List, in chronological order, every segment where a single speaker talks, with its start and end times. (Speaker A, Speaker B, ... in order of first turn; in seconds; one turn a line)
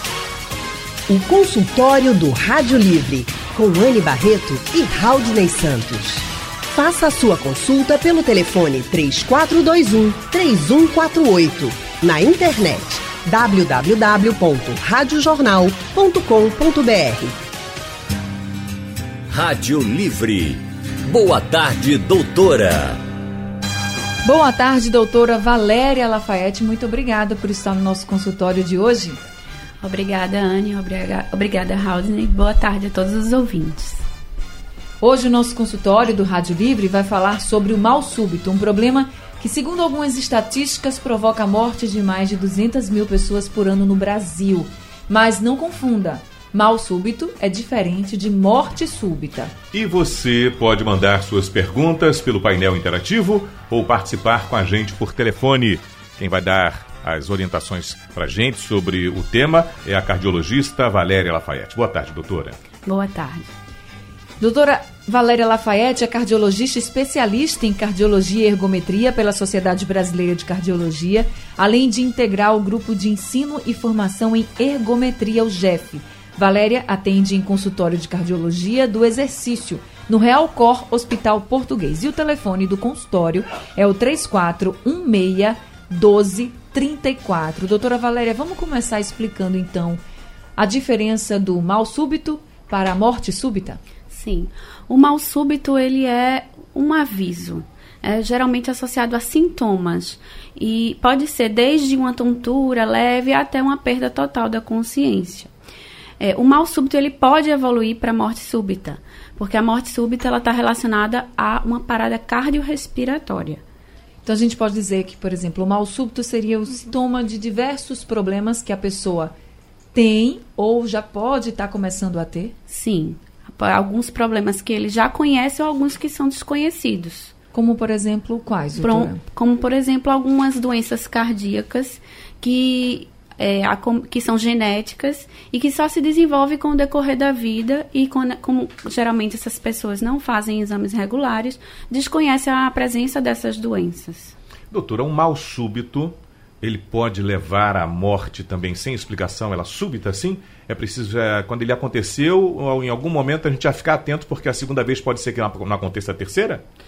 Speaker A: 1.1-17.3
Speaker B: 19.3-23.0
Speaker C: 24.2-29.2
Speaker D: 29.8-34.0
Speaker C: 35.0-49.5
Speaker E: 49.7-62.6
Speaker D: 62.9-63.5
Speaker C: 64.4-90.0
Speaker C: 90.6-93.8
Speaker D: 94.1-105.5
Speaker D: 106.2-113.6
Speaker C: 114.2-119.3
Speaker C: 119.9-122.5
Speaker D: 122.7-127.3
Speaker C: 127.5-129.2
Speaker D: 128.8-144.3
Speaker E: 144.7-156.6